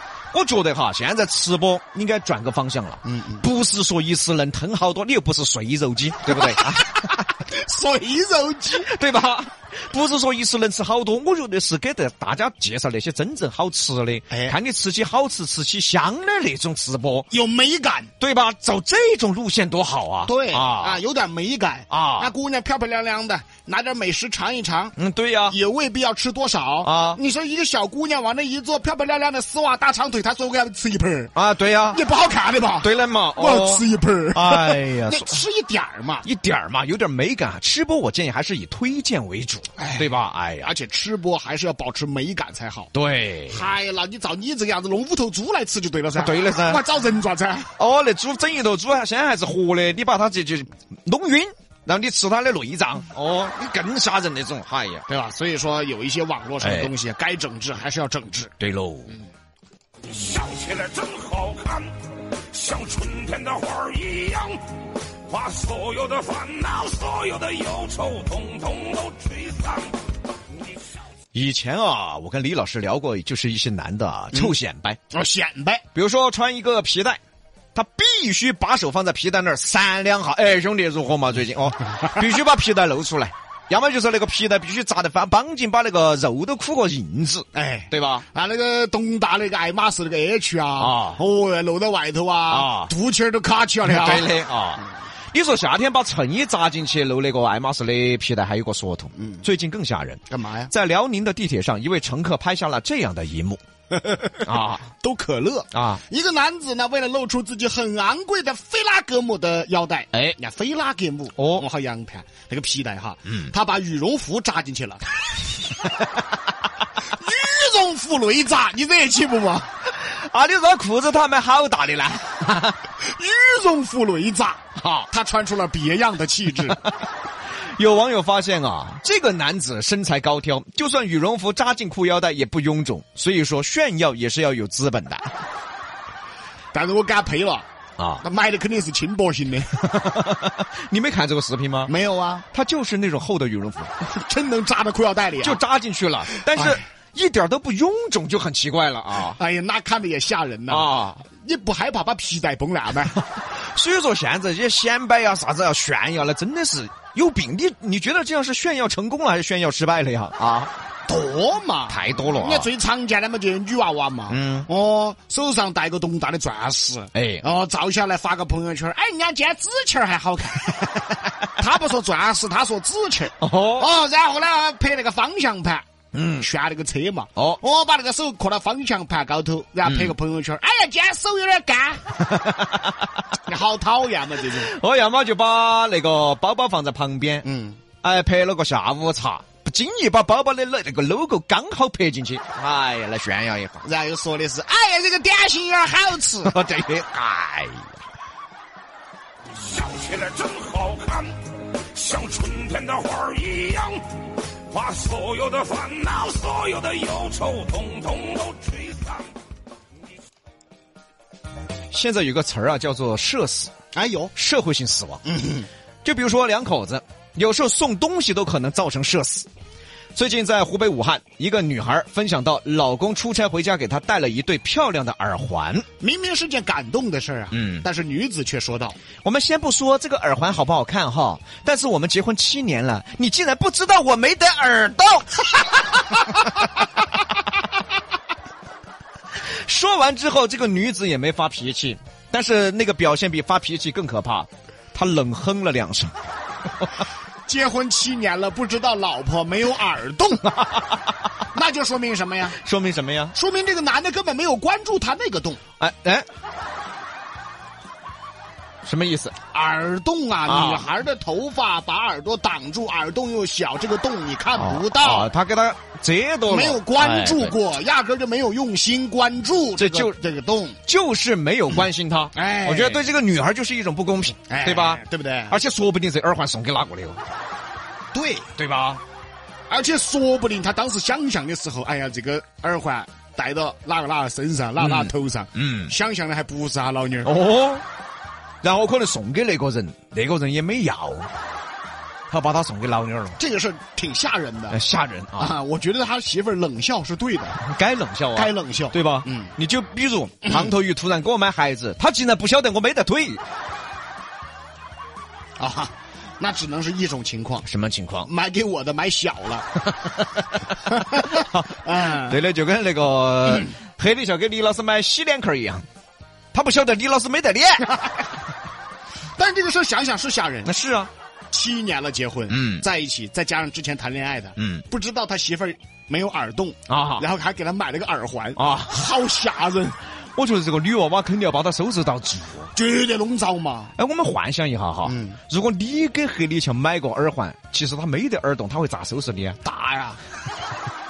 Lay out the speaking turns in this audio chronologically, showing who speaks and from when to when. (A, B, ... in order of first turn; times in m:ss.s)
0:00.3-0:07.1 A
0:03.0-0:03.4 B
0:06.3-0:08.9 B
0:08.7-0:17.3 A
0:14.3-0:14.6 B
0:17.3-0:18.1 B
0:18.2-0:21.0 A
0:20.2-0:25.0 B
0:21.9-0:22.3 A
0:25.0-0:25.6 A
0:25.5-0:31.3 B
0:26.8-0:27.2 A
0:31.4-0:32.0 A
0:31.9-0:36.3 B
0:32.8-0:35.4 A
0:36.2-0:40.7 A
0:39.8-0:40.1 B
0:40.6-0:42.9 B
0:42.9-0:43.6 A
0:43.5-0:47.7 B
0:46.2-0:46.8 A
0:47.8-0:55.0 A
0:55.1-0:58.5 B
0:56.6-0:56.9 A
0:58.6-0:59.1 A
1:00.1-1:01.9 C
1:02.5-1:04.6 C
1:03.6-1:04.3 A
1:05.3-1:09.9 C
1:11.3-1:15.0 A
1:15.1-1:15.8 B
1:16.0-1:17.2 A
1:17.7-1:28.3 A
1:27.5-1:34.4 B
1:30.8-1:31.2 A
1:32.5-1:32.9 A
1:33.9-1:40.2 A
1:39.2-1:39.4 B
1:40.3-1:40.7 B
1:40.7-1:43.6 A
1:43.9-1:55.0 B
1:44.4-1:44.9 A
1:45.7-1:46.0 A
1:51.4-1:51.6 A
1:57.0-1:59.7 B
1:59.9-2:02.8 A
2:03.0-2:06.8 B
2:04.8-2:05.1 A
2:07.8-2:15.3 A
2:16.7-2:17.7 B
2:18.0-2:18.2 A
2:18.2-2:19.7 B
2:19.7-2:21.9 A
2:21.9-2:22.4 B
2:22.5-2:23.9 A
2:24.0-2:25.6 B
2:25.4-2:29.4 A
2:26.3-2:26.8 B
2:29.3-2:33.2 B
2:30.7-2:31.3 A
2:33.3-2:40.7 A
2:41.1-2:55.8 B
2:41.9-2:42.7 A
2:44.3-2:44.7 A
2:47.1-2:47.4 A
2:53.4-2:53.9 A
2:56.1-2:56.5 A
2:56.4-3:02.1 B
3:02.3-3:03.1 A
3:03.5-3:04.7 B
3:04.5-3:07.4 A
3:07.4-3:07.8 B
3:08.0-3:13.9 A
3:13.8-3:16.6 B
3:16.4-3:18.0 A
3:19.7-3:21.4 C
3:19.9-3:21.1 A
3:21.9-3:24.0 C
3:22.3-3:23.8 A
3:24.7-3:27.2 C
3:25.1-3:29.0 A
3:27.8-3:28.8 C
3:31.9-3:33.7 A
3:33.9-3:34.3 B
3:34.4-3:35.2 A
3:35.2-3:35.7 B
3:36.0-3:39.5 A
3:40.2-3:45.9 A
3:46.0-3:49.0 B
3:47.5-3:47.9 A
3:49.2-3:56.5 A
3:59.6-4:06.1 A
4:07.5-4:10.6 B
4:10.5-4:11.1 A
4:11.5-4:12.6 B
4:12.6-4:13.4 A
4:13.3-4:15.6 B
4:15.8-4:16.3 A
4:18.8-4:19.4 A
4:19.5-4:25.3 B
4:20.5-4:20.9 A
4:24.6-4:27.6 A
4:26.5-4:30.8 B
4:29.8-4:30.2 A
4:30.9-4:37.2 A
4:32.3-4:33.1 B
4:34.4-4:35.6 B
4:38.1-4:38.5 B
4:38.6-4:39.0 A
4:39.7-4:47.3 B
4:44.8-4:45.9 A
4:47.2-4:47.8 A
4:48.6-4:51.3 A
4:52.3-4:53.4 A
4:53.4-4:54.8 B
4:54.7-4:55.6 A
4:55.4-4:57.6 B
4:57.6-5:03.4 A
4:58.3-4:59.5 B
5:00.4-5:00.7 B
5:05.6-5:07.7 B
5:07.6-5:08.3 A
5:08.2-5:09.8 B
5:10.8-5:12.4 B
5:11.3-5:15.8 A
5:16.5-5:18.1 A
5:19.4-5:20.7 B
5:20.6-5:21.1 A
5:21.5-5:30.0 B
5:22.5-5:22.8 A
5:24.6-5:24.8 A
5:26.9-5:27.2 A
5:28.6-5:29.0 A
5:30.4-5:32.7 A
5:32.8-5:33.9 B
5:34.0-5:39.6 A
5:35.0-5:35.4 B
5:39.6-5:40.2 B